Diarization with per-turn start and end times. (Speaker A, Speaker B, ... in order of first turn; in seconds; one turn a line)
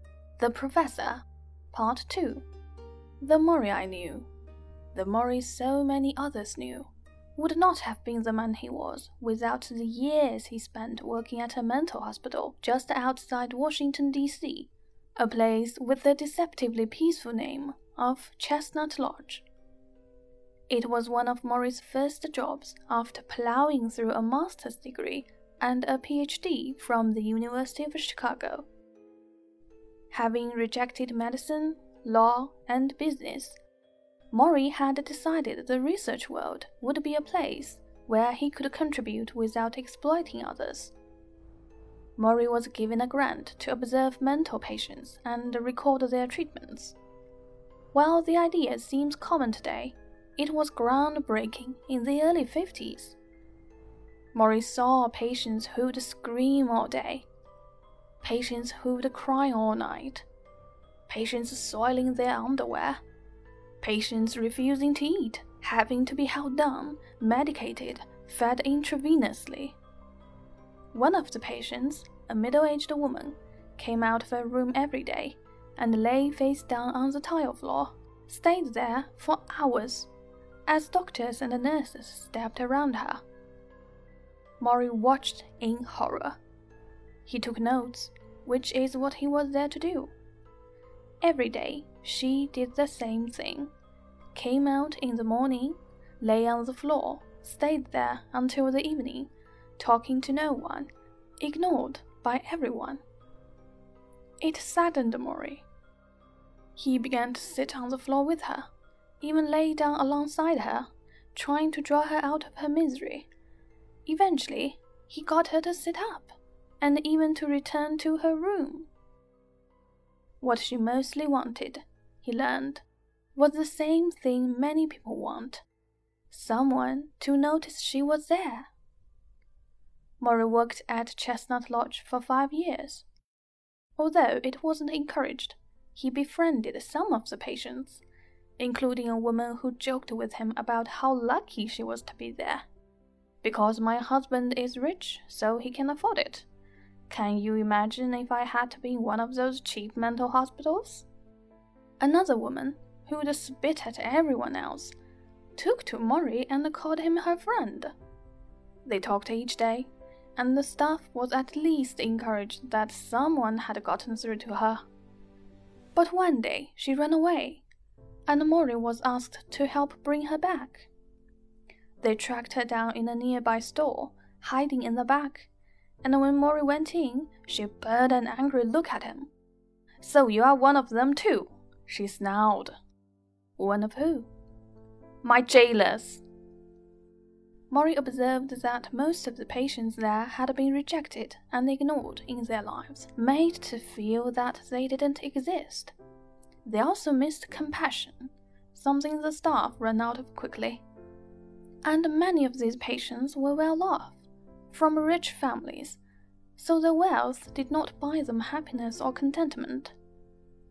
Speaker A: 0.4-2.5
Speaker A: 3.2-4.3
Speaker A: 4.9-19.4
Speaker A: 20.7-28.7
Speaker A: 30.1-33.6
Speaker A: 34.3-40.9
Speaker A: 42.2-47.0
Speaker A: 47.9-53.2
Speaker A: 54.3-57.3
Speaker A: 58.2-60.2
Speaker A: 61.1-63.0
Speaker A: 63.8-69.8
Speaker A: 70.9-80.1
Speaker A: 80.7-83.2
Speaker A: 84.6-86.4
Speaker A: 87.3-90.1
Speaker A: 91.2-93.7
Speaker A: 94.3-103.0
Speaker A: 104.4-105.7
Speaker A: 106.8-108.7
Speaker A: 109.2-113.3
Speaker A: 114.1-118.9
Speaker A: 120.4-125.7
Speaker A: 126.3-128.7
Speaker A: 130.2-133.1
Speaker A: 134.0-138.0
Speaker A: 138.6-142.7
Speaker A: 143.4-146.5
Speaker A: 147.1-151.1
Speaker A: 152.0-154.9
Speaker A: 155.6-157.9
Speaker A: 158.8-164.8
Speaker A: 165.9-167.6
Speaker A: 168.3-170.9
Speaker A: 172.0-175.5
Speaker A: 176.0-179.3
Speaker A: 180.0-182.8
Speaker A: 183.6-184.3
Speaker A: 185.2-186.2
Speaker A: 187.7-195.9
Speaker A: 196.7-200.8
Speaker A: 201.8-204.2
Speaker A: 204.7-206.0
Speaker A: 206.6-209.9